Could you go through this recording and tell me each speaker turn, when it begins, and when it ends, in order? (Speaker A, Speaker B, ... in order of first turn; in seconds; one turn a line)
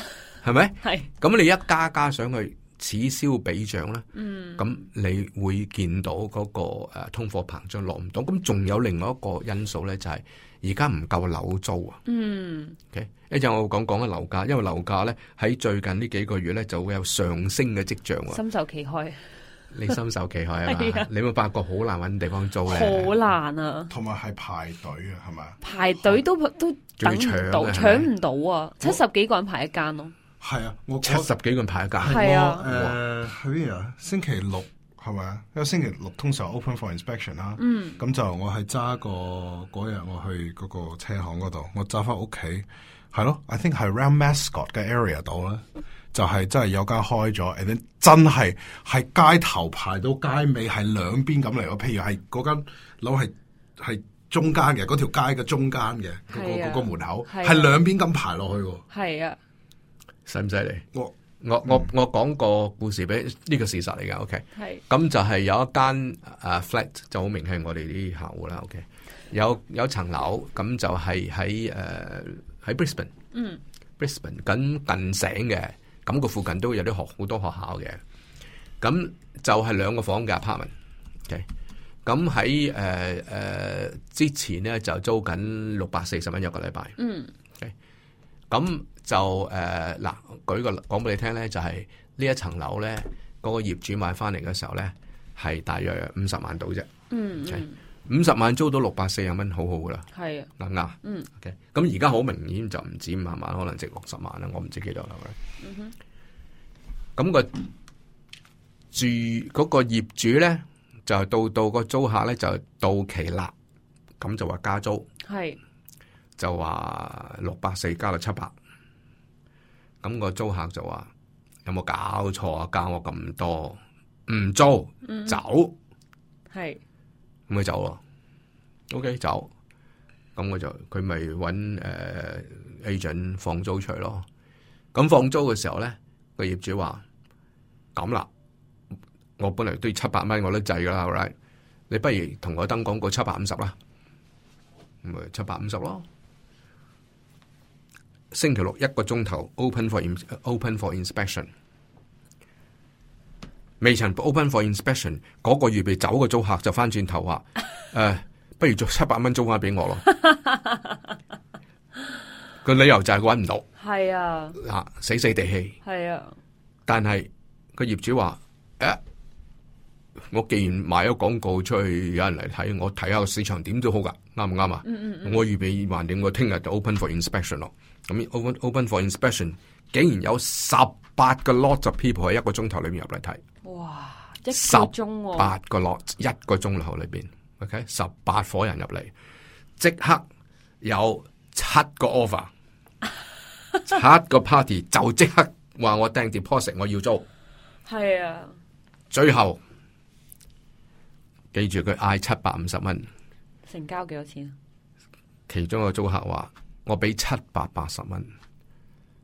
Speaker A: 0.4-4.1
Speaker B: 0.8-1.1
Speaker B: 4.2-4.7
Speaker A: 4.6-12.0
Speaker B: 12.1-12.8
Speaker A: 12.9-18.4
Speaker B: 18.3-19.2
Speaker A: 19.7-23.2
Speaker B: 20.7-21.1
Speaker B: 22.7-23.9
Speaker C: 23.9-25.6
Speaker B: 25.6-30.1
Speaker A: 27.0-28.1
Speaker C: 30.4-31.3
Speaker A: 31.0-33.0
Speaker C: 32.0-58.8
Speaker B: 32.1-32.7
Speaker B: 37.6-38.0
Speaker B: 56.3-57.7
Speaker B: 58.9-59.4
Speaker A: 60.3-60.9
Speaker A: 61.4-73.1
Speaker B: 64.6-64.8
Speaker B: 73.3-73.6
Speaker A: 74.0-78.0
Speaker A: 78.8-80.7
Speaker A: 82.0-87.0
Speaker B: 87.0-87.3
Speaker A: 88.5-96.9
Speaker B: 97.1-97.7
Speaker A: 97.5-100.1
Speaker B: 100.1-100.5
Speaker A: 100.6-105.4
Speaker B: 105.6-105.9
Speaker A: 107.2-107.6
Speaker A: 108.9-113.5
Speaker A: 114.2-115.1
Speaker B: 115.3-115.6
Speaker A: 116.4-118.5
Speaker A: 120.0-121.1
Speaker A: 121.7-125.8
Speaker B: 125.0-125.4
Speaker B: 126.5-126.8
Speaker A: 127.5-128.0
Speaker A: 128.9-129.5
Speaker A: 130.4-134.3
Speaker A: 134.9-137.0
Speaker A: 137.9-138.3
Speaker A: 139.4-141.3
Speaker A: 141.9-143.8
Speaker A: 145.0-146.1
Speaker A: 148.3-151.5
Speaker A: 153.8-160.1
Speaker B: 160.3-160.8
Speaker A: 162.6-163.7
Speaker B: 163.8-164.6
Speaker A: 164.6-165.8
Speaker B: 165.8-166.3
Speaker A: 166.9-169.0
Speaker A: 170.3-183.4
Speaker B: 174.8-175.4
Speaker B: 183.6-185.5
Speaker A: 184.5-189.1
Speaker A: 189.8-190.2
Speaker A: 190.8-192.5
Speaker A: 193.8-197.2
Speaker B: 197.9-198.5
Speaker A: 199.1-199.6
Speaker A: 201.5-203.1
Speaker B: 203.7-204.5
Speaker A: 205.5-208.3